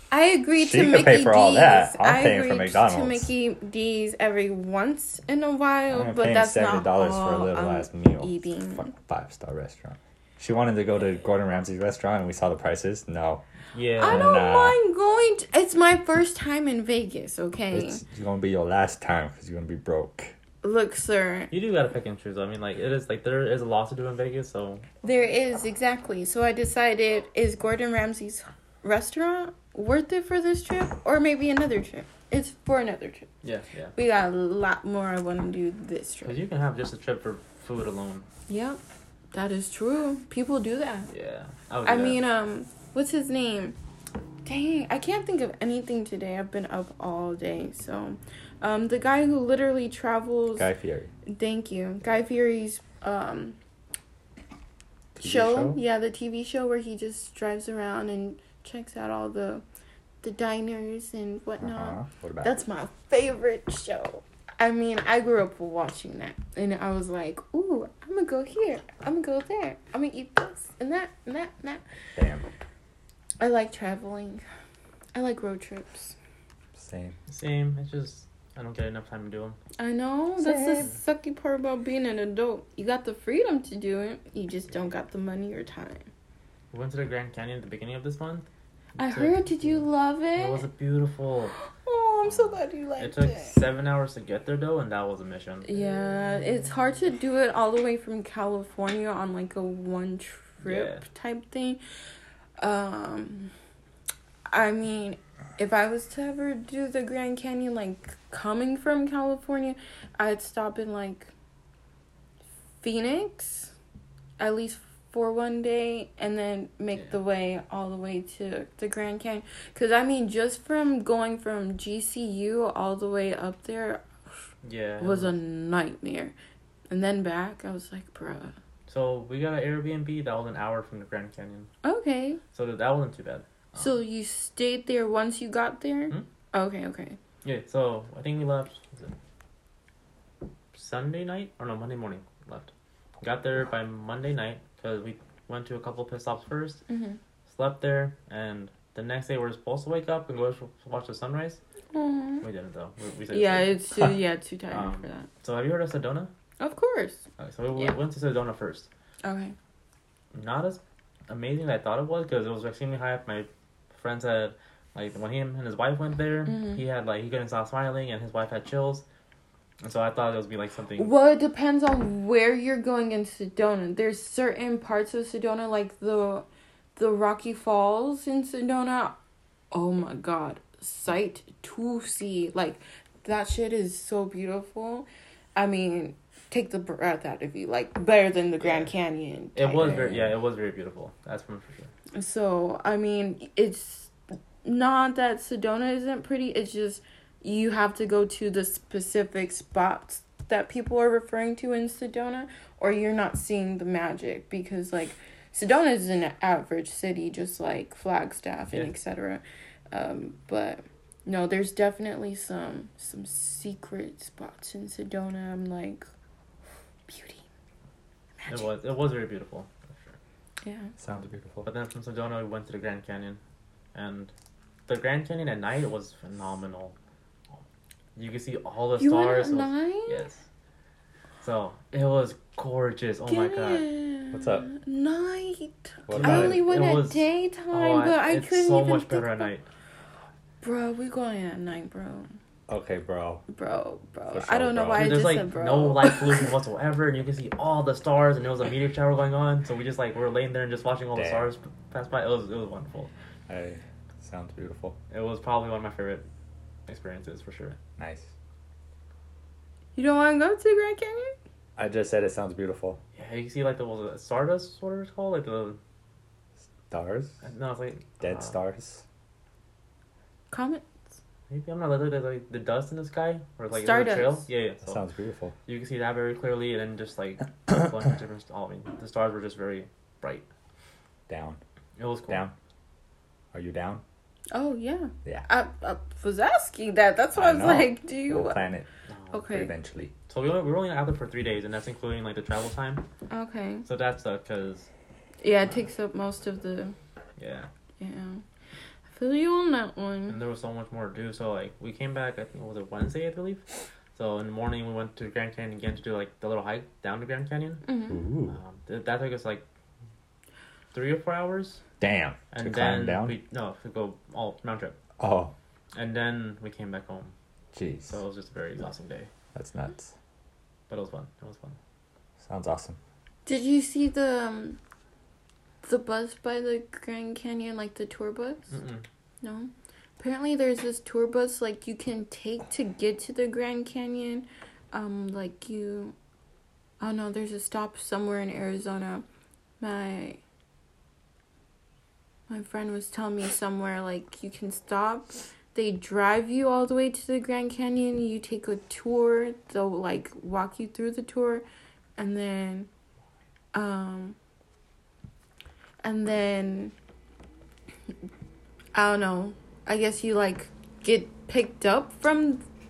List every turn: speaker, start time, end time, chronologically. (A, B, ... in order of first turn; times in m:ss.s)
0:00.1-0:08.9 A
0:00.6-0:03.3 B
0:05.9-0:13.4 B
0:13.7-0:14.4 C
0:14.0-0:18.0 A
0:14.0-0:14.8 B
0:17.7-0:20.3 B
0:20.6-0:21.5 A
0:21.5-0:24.8 C
0:25.0-0:33.3 A
0:33.4-0:33.9 C
0:34.0-0:36.4 A
0:36.2-0:38.3 C
0:38.5-0:38.8 A
0:39.3-0:41.1 A
0:41.1-0:42.2 C
0:41.8-0:43.8 A
0:44.4-0:50.7 A
0:50.6-0:51.1 B
0:51.2-0:53.6 A
0:55.2-0:55.8 B
0:55.2-0:59.6 A
1:00.2-1:11.8 A
1:01.6-1:02.5 B
1:12.2-1:12.4 B
1:13.4-1:14.4 A
1:15.1-1:16.1 A
1:16.8-1:17.2 B
1:17.3-1:19.6 C
1:19.8-1:26.1 A
1:20.4-1:20.9 B
1:26.7-1:28.5 C
1:29.0-1:30.6 A
1:29.0-1:31.5 C
1:31.7-1:33.6 A
1:32.3-1:35.8 C
1:35.6-1:41.8 A
1:40.6-1:41.0 C
1:42.6-1:43.5 A
1:44.5-1:51.3 A
1:52.8-1:53.7 A
1:54.4-2:04.0 A
2:04.6-2:05.3 C
2:05.0-2:06.3 A
2:06.9-2:08.5 A
2:08.9-2:11.7 C
2:11.8-2:12.4 A
2:12.5-2:13.9 C
2:13.7-2:17.2 A
2:17.4-2:19.1 C
2:20.7-2:26.8 C
2:26.9-2:27.2 A
2:27.5-2:31.6 C
2:31.9-2:32.4 A
2:32.4-2:33.8 C
2:33.3-2:35.3 A
2:34.7-2:36.3 C
2:36.6-2:38.0 A
2:37.4-2:38.9 C
2:39.2-2:39.5 A
2:40.3-2:49.0 C
2:46.4-2:46.8 A
2:49.8-2:51.1 C
2:51.0-2:56.4 A
2:57.0-2:59.2 A
2:59.7-3:10.0 A
3:08.6-3:08.9 C
3:09.6-3:11.9 C
3:09.8-3:10.3 B
3:12.1-3:14.1 A
3:14.6-3:36.0 A
3:37.1-3:37.4 A
3:38.4-3:38.7 A
3:38.5-3:40.2 C
3:40.6-3:40.9 A
3:41.0-3:41.7 B
3:41.6-3:43.4 C
3:43.9-3:44.3 C
3:44.9-3:46.9 C
3:48.2-3:50.4 C
3:49.0-3:50.2 A
3:51.4-3:53.9 C
3:53.3-3:59.5 A
3:54.3-3:54.7 B
3:56.1-3:56.6 B
3:56.1-3:59.6 C
4:00.6-4:02.3 A
4:02.7-4:03.4 B
4:03.5-4:06.5 A
4:04.3-4:05.2 B
4:04.9-4:13.1 C
4:11.1-4:11.5 B
4:13.5-4:15.0 B
4:15.1-4:16.2 C
4:16.9-4:17.8 C
4:18.0-4:18.3 B
4:20.0-4:21.3 A
4:21.8-4:23.0 B
4:23.2-4:25.8 C
4:26.9-4:27.4 B
4:27.4-4:28.5 C
4:28.2-4:29.0 B
4:30.5-4:30.9 A
4:31.5-4:35.0 C
4:33.7-4:34.5 A
4:34.8-4:35.5 B
4:35.7-4:40.4 C
4:41.3-4:41.6 B
4:42.0-4:42.4 C
4:42.3-4:42.5 B
4:43.5-4:44.0 B
4:44.5-4:48.6 A
4:47.3-4:48.9 B
4:49.1-4:49.4 C
4:49.3-4:49.7 A
4:49.5-4:50.1 B
4:50.3-4:53.0 C
4:53.3-4:53.8 A
4:53.8-4:54.9 C
4:55.4-4:56.9 A
4:57.4-4:57.7 C
4:58.0-4:58.4 A
4:59.1-5:00.4 A
5:00.3-5:07.8 C
5:07.8-5:08.2 A
5:08.1-5:08.6 B
5:08.5-5:09.6 C
5:10.9-5:11.8 C
5:12.0-5:13.4 B
5:12.5-5:15.0 C
5:15.2-5:15.5 B
5:15.9-5:17.3 C
5:17.7-5:18.2 B
5:18.1-5:19.3 C
5:19.5-5:20.1 B
5:20.9-5:21.8 C
5:22.4-5:23.0 B
5:23.4-5:24.8 A
5:25.8-5:28.7 A
5:28.7-5:29.0 C
5:29.4-5:36.1 A
5:37.0-5:39.2 A
5:39.8-5:40.4 A
5:42.5-5:51.6 A
5:52.2-5:52.9 A
5:53.7-5:54.4 A
5:56.0-5:56.9 A
5:58.9-6:02.6 A